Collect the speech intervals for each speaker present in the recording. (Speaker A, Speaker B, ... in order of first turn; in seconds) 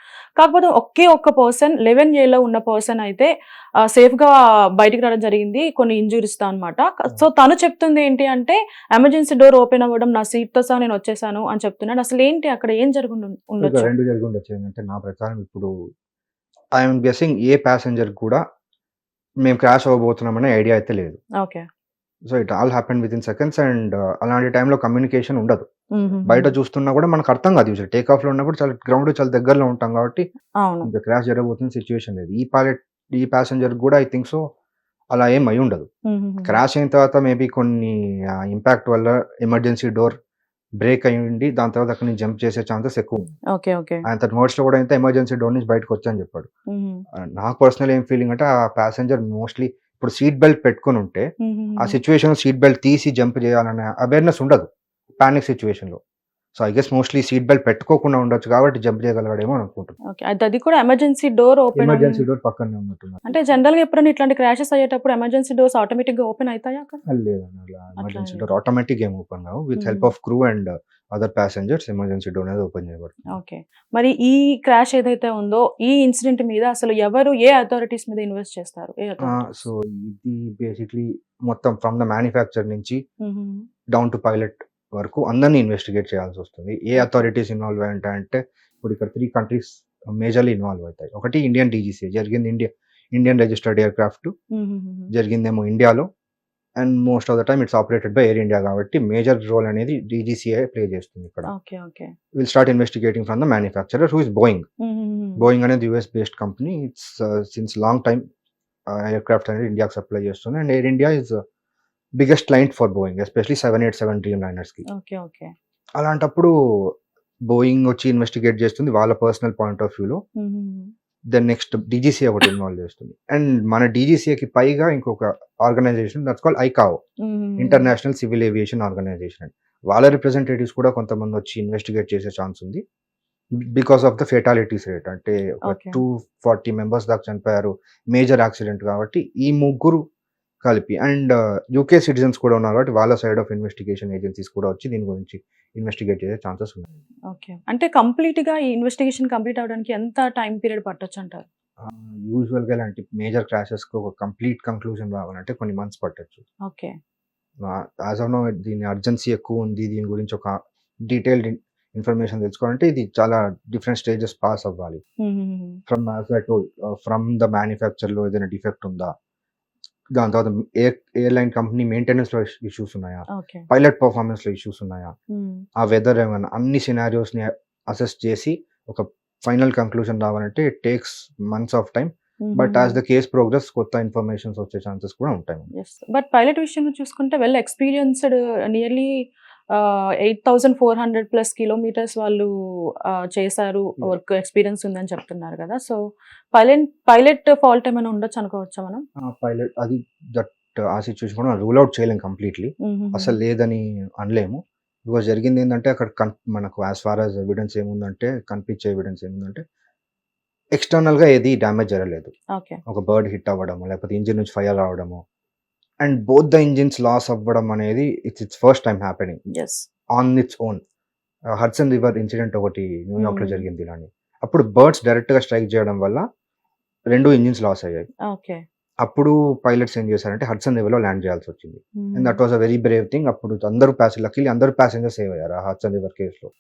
Speaker A: 0.4-3.3, 3.9-13.9, 25.9-26.5, 30.6-30.9, 36.1-36.6, 43.5-44.0, 46.7-47.0, 51.4-52.0, 60.1-62.2, 63.3-67.0, 68.0-68.5, 69.8-70.1, 73.3-79.6, 83.2-83.7, 87.0-87.3, 94.5-95.1, 101.5-102.1, 104.8-105.5, 114.9-115.5, 120.4-120.9, 127.2-127.9, 135.7-136.0, 147.3-151.4, 156.7-157.0, 165.2-165.8, 173.3-173.7, 175.3-175.7, 182.4-183.0, 185.8-192.5, 193.1-196.0, 196.5-199.0, 202.8-203.4, 219.6-219.8, 223.2-223.7, 228.3-228.6, 232.0-232.4
Speaker B: 13.6-15.7, 16.8-18.4, 19.4-21.2, 22.3-25.6, 26.2-30.3, 30.8-34.4, 35.1-35.9, 36.5-40.1, 40.8-43.3, 44.1-46.5, 47.1-51.3, 51.8-54.7, 55.2-56.0, 56.6-60.0, 61.8-63.5, 67.0-73.2, 79.2-83.0, 83.9-94.3, 95.1-96.1, 96.8-101.5, 102.3-104.7, 105.4-108.2, 108.9-111.4, 112.2-114.8, 116.0-116.9, 117.5-120.2, 121.3-127.0, 127.6-132.8, 133.7-140.0, 140.6-146.9, 151.8-156.4, 157.6-165.0, 165.9-169.1, 170.2-175.1, 175.8-185.7, 199.2-209.6, 210.8-212.3, 212.9-215.2, 216.0-219.4, 220.2-220.8, 221.6-226.2, 227.1-228.1, 229.0-236.5